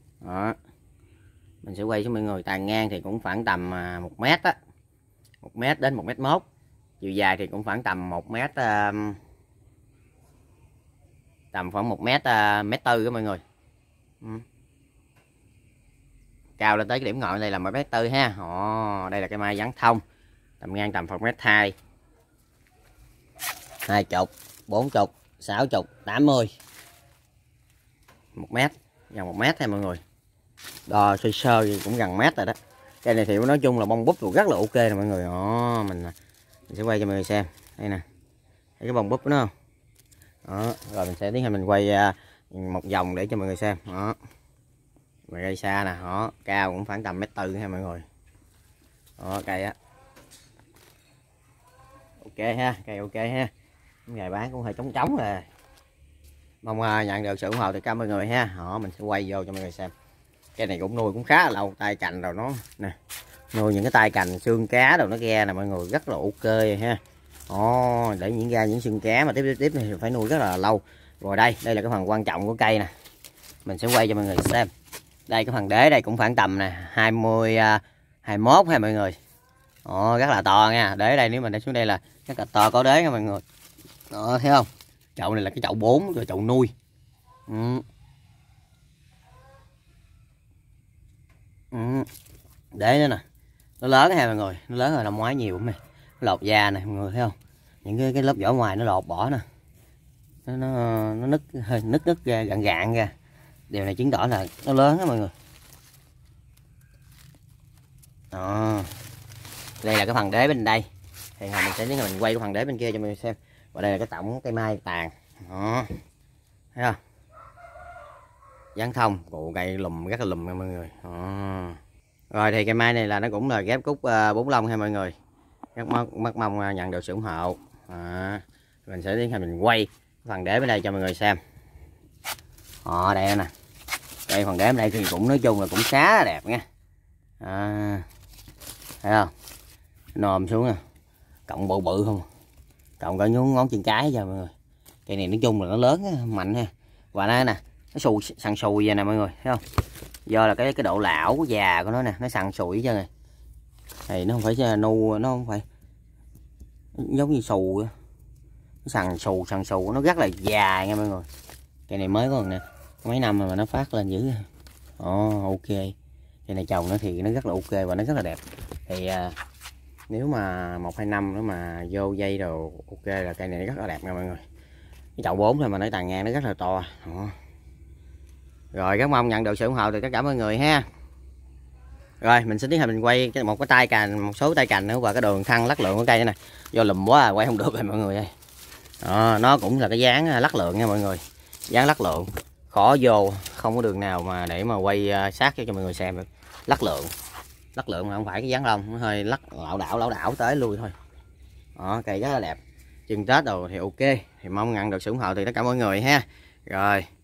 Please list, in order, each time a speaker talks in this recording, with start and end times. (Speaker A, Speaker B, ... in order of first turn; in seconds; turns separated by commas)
Speaker A: 0.2-0.6, Speaker A: 1.6-4.6, Speaker A: 5.4-6.5, Speaker A: 7.0-9.2, Speaker A: 11.5-13.4, Speaker A: 16.6-20.0, Speaker A: 20.6-21.8, Speaker A: 23.9-26.5, Speaker A: 28.4-30.0, Speaker A: 30.9-36.1, Speaker A: 36.7-38.0, Speaker A: 38.8-39.5, Speaker A: 40.5-44.2, Speaker A: 45.3-48.0, Speaker A: 49.2-49.8, Speaker A: 52.2-53.5, Speaker A: 54.1-55.5, Speaker A: 56.6-59.9, Speaker A: 60.6-63.0, Speaker A: 63.5-72.9, Speaker A: 73.7-74.7, Speaker A: 75.3-79.2, Speaker A: 79.8-83.4, Speaker A: 84.1-86.7, Speaker A: 87.5-87.8, Speaker A: 91.7-92.1, Speaker A: 92.7-93.2, Speaker A: 93.8-99.4, Speaker A: 100.5-103.1, Speaker A: 103.7-105.3, Speaker A: 108.3-108.9, Speaker A: 109.8-110.9, Speaker A: 111.4-116.0, Speaker A: 118.8-121.8, Speaker A: 122.3-125.1, Speaker A: 125.8-131.4, Speaker A: 132.8-133.5, Speaker A: 134.3-136.6, Speaker A: 137.4-138.1, Speaker A: 139.0-139.3, Speaker A: 140.2-140.8, Speaker A: 141.5-142.2, Speaker A: 143.0-144.5, Speaker A: 145.1-149.6, Speaker A: 150.3-153.1, Speaker A: 154.1-155.6, Speaker A: 156.9-157.9, Speaker A: 158.8-161.3, Speaker A: 161.9-164.5, Speaker A: 165.0-165.9, Speaker A: 166.5-169.3, Speaker A: 170.1-174.4, Speaker A: 175.2-177.3, Speaker A: 178.7-180.8, Speaker A: 182.2-188.3, Speaker A: 189.0-197.1, Speaker A: 197.8-200.9, Speaker A: 201.8-207.1